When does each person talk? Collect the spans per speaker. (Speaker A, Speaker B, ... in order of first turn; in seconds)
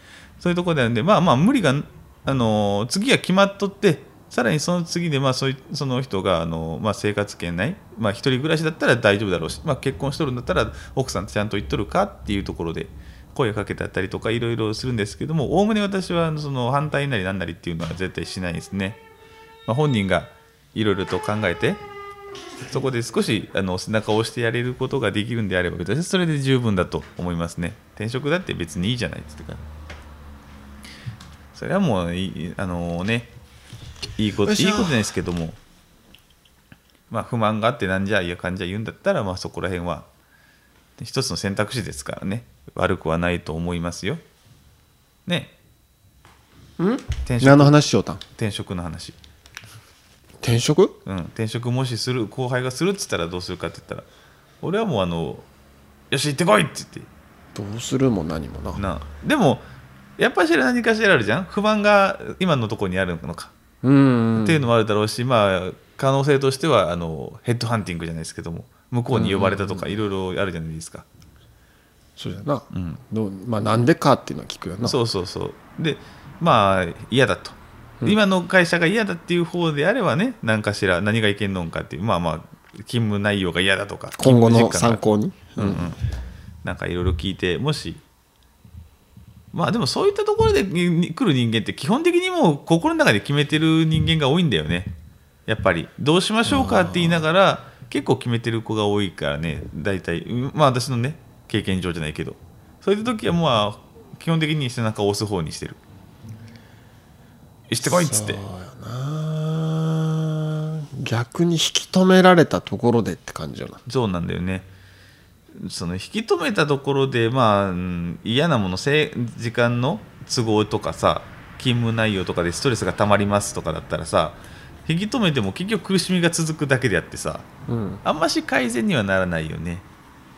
Speaker A: 0.4-19.0, 19.7-21.8, 22.7-29.6, 31.5-33.3, 34.2-35.6, 37.1-40.1, 41.0-44.2, 45.3-45.5, 47.2-47.8, 48.4-49.2, 51.0-54.1, 54.6-55.5, 56.1-57.1, 58.8-59.6, 60.2-63.5, 64.4-71.1, 72.7-73.0, 74.8-85.0, 85.6-86.0, 86.6-88.0, 89.5-94.9, 95.5-105.8, 107.7-108.4, 113.9-114.7, 115.6-127.5, 128.0-129.9
Speaker B: 34.5-35.1, 46.8-48.2, 50.4-51.0, 57.5-58.8, 63.8-64.7, 69.1-70.0, 72.2-75.0, 84.2-85.9, 96.5-97.2, 107.8-113.8, 127.7-128.0